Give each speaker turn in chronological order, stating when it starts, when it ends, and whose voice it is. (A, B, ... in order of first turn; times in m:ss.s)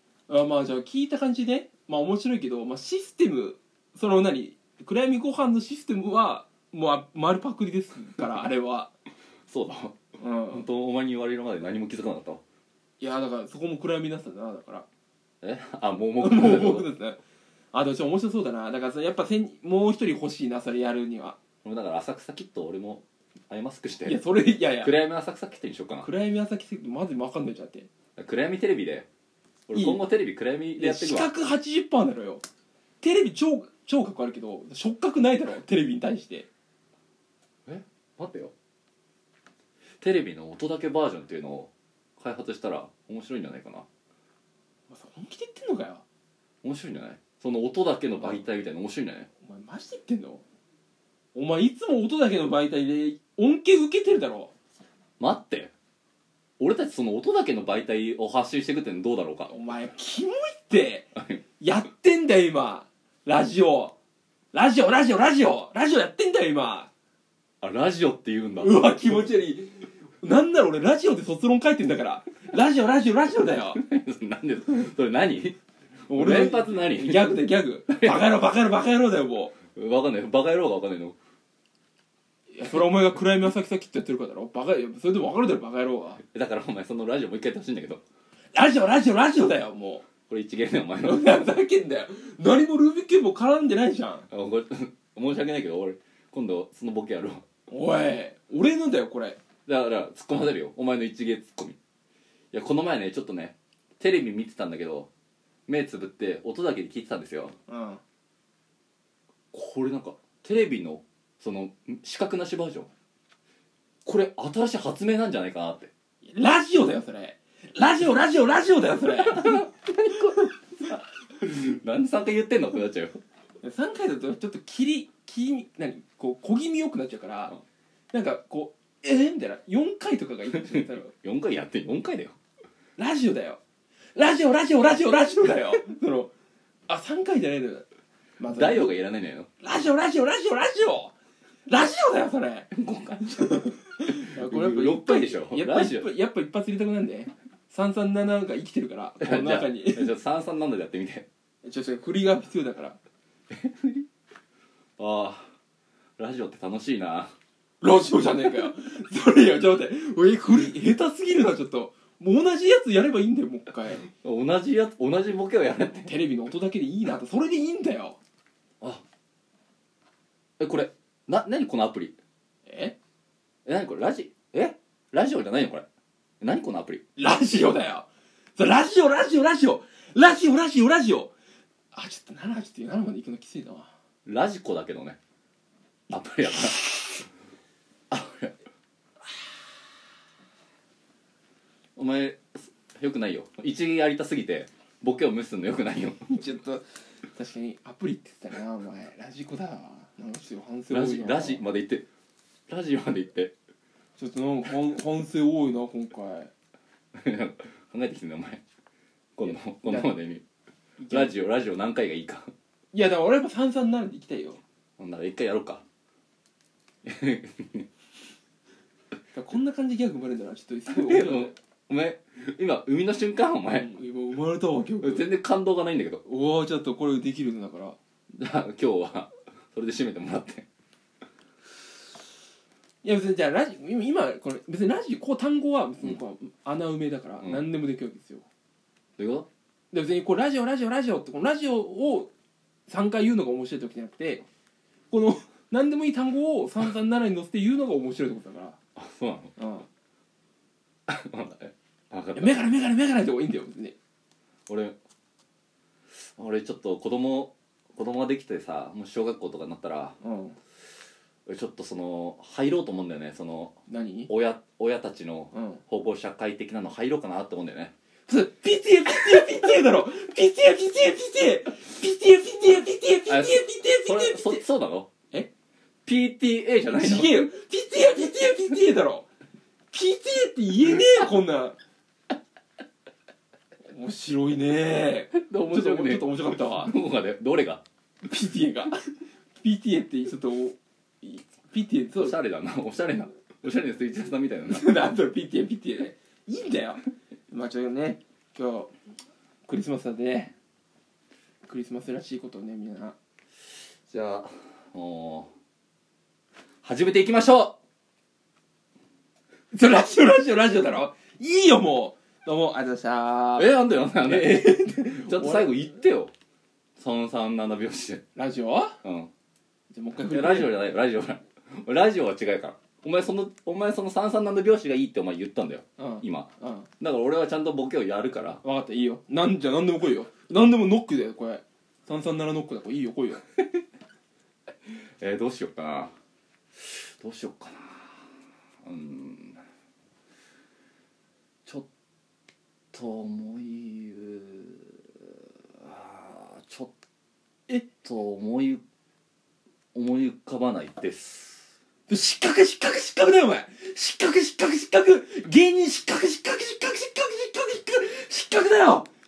0:00.3-0:08.9 A
0:09.5-0:10.0 B
0:10.2-0:10.7 A
0:10.5-0:12.4 B
0:13.0-0:14.9 A
0:15.4-0:16.9 B
0:16.2-0:17.2 A
0:17.7-0:21.4 A
0:21.6-0:24.2 B
0:24.1-0:24.9 A
0:24.8-0:26.1 B
0:26.0-0:27.9 A
0:28.2-0:29.1 B
0:29.7-0:31.3 B
0:29.7-0:30.0 A
0:30.8-0:32.4 A
0:33.0-0:36.5 A
0:37.7-0:38.5 B
0:40.0-0:43.9 B
0:44.9-0:46.0 A
0:46.6-0:49.3 B
0:49.4-0:50.4 A
0:51.4-0:54.5 A
0:55.2-0:55.7 B
0:56.6-0:59.5 B
0:59.5-1:01.1 A
1:01.2-1:01.4 B
1:01.6-1:03.9 A
1:04.5-1:06.9 A
1:07.6-1:08.8 B
1:08.6-1:13.8 A
1:13.7-1:17.4 B
1:16.1-1:19.6 A
1:17.9-1:18.2 B
1:19.7-1:21.2 B
1:22.5-1:26.2 A
1:26.2-1:28.0 B
1:28.5-1:30.0 A
1:30.3-1:31.3 B
1:31.0-1:34.3 A
1:34.3-1:37.4 B
1:37.7-1:39.4 A
1:39.7-1:41.8 B
1:42.5-1:45.1 B
1:45.7-1:47.5 B
1:47.7-1:48.0 A
1:49.5-1:52.9 B
1:54.0-1:55.9 B
1:56.2-1:59.6 A
1:59.2-2:03.2 B
2:03.6-2:07.6 A
2:08.1-2:11.1 A
2:10.5-2:12.4 B
2:13.0-2:13.6 A
2:14.2-2:16.3 A
2:16.9-2:17.9 A
2:18.4-2:19.0 A
2:18.5-2:19.5 B
2:19.6-2:21.2 A
2:21.7-2:22.7 A
2:22.7-2:26.1 B
2:23.4-2:30.1 A
2:29.2-2:31.3 B
2:31.6-2:33.0 A
2:33.5-2:34.1 B
2:35.0-2:35.5 B
2:36.2-2:37.3 B
2:37.8-2:44.0 A
2:44.1-2:46.2 B
2:46.0-2:48.2 A
2:50.6-2:52.2 B
2:52.7-2:53.0 A
2:53.6-2:55.8 B
2:56.4-2:57.0 B
2:57.2-3:01.3 A
3:01.9-3:03.9 A
3:04.3-3:05.2 B
3:06.1-3:07.2 B
3:08.1-3:08.5 B
3:12.0-3:16.2 B
3:16.3-3:21.6 A
3:20.9-3:22.1 B
3:22.7-3:23.5 B
3:24.2-3:26.5 A
3:27.1-3:28.6 B
3:29.4-3:30.4 B
3:29.4-3:30.1 A
3:31.0-3:31.3 A
3:31.1-3:32.5 B
3:32.9-3:34.6 A
3:35.0-3:35.8 B
3:37.0-3:37.9 B
3:39.3-3:41.6 A
3:40.9-3:43.9 B
3:43.7-3:45.3 A
3:45.0-3:46.2 B
3:46.2-3:48.0 A
3:48.3-3:50.7 B
3:53.0-3:58.4 A
3:59.2-3:59.5 B
3:59.9-4:02.3 A
4:02.9-4:04.4 A
4:05.1-4:08.8 A
4:09.0-4:09.5 B
4:09.6-4:09.9 A
4:11.1-4:12.6 B
4:12.4-4:14.0 A
4:14.7-4:15.0 B
4:16.2-4:20.2 B
4:20.2-4:20.6 A
4:21.5-4:23.8 B
4:23.9-4:24.3 A
4:24.3-4:27.9 B
4:25.5-4:25.8 A
4:28.3-4:34.6 A
4:33.3-4:35.1 B
4:36.0-4:37.5 B
4:36.9-4:39.3 A
4:39.9-4:41.8 A
4:43.9-4:46.9 A
4:45.4-4:47.8 B
4:48.2-4:52.4 A
4:52.2-4:54.9 B
4:54.7-4:58.9 A
4:59.7-5:00.5 A
5:01.7-5:03.2 A
5:04.1-5:05.5 B
5:06.8-5:07.8 B
5:09.7-5:13.7 A
5:13.6-5:16.3 B
5:14.2-5:15.7 A
5:17.0-5:18.2 B
5:18.4-5:19.0 A
5:19.0-5:19.3 B
5:19.9-5:20.7 A
5:20.3-5:28.6 B
5:26.0-5:26.9 A
5:28.6-5:33.4 A
5:34.9-5:36.1 B
5:36.8-5:38.2 B
5:38.8-5:39.6 B
5:42.9-5:46.9 B
5:48.0-5:48.8 B
5:50.0-5:51.7 B
5:52.1-5:59.1 A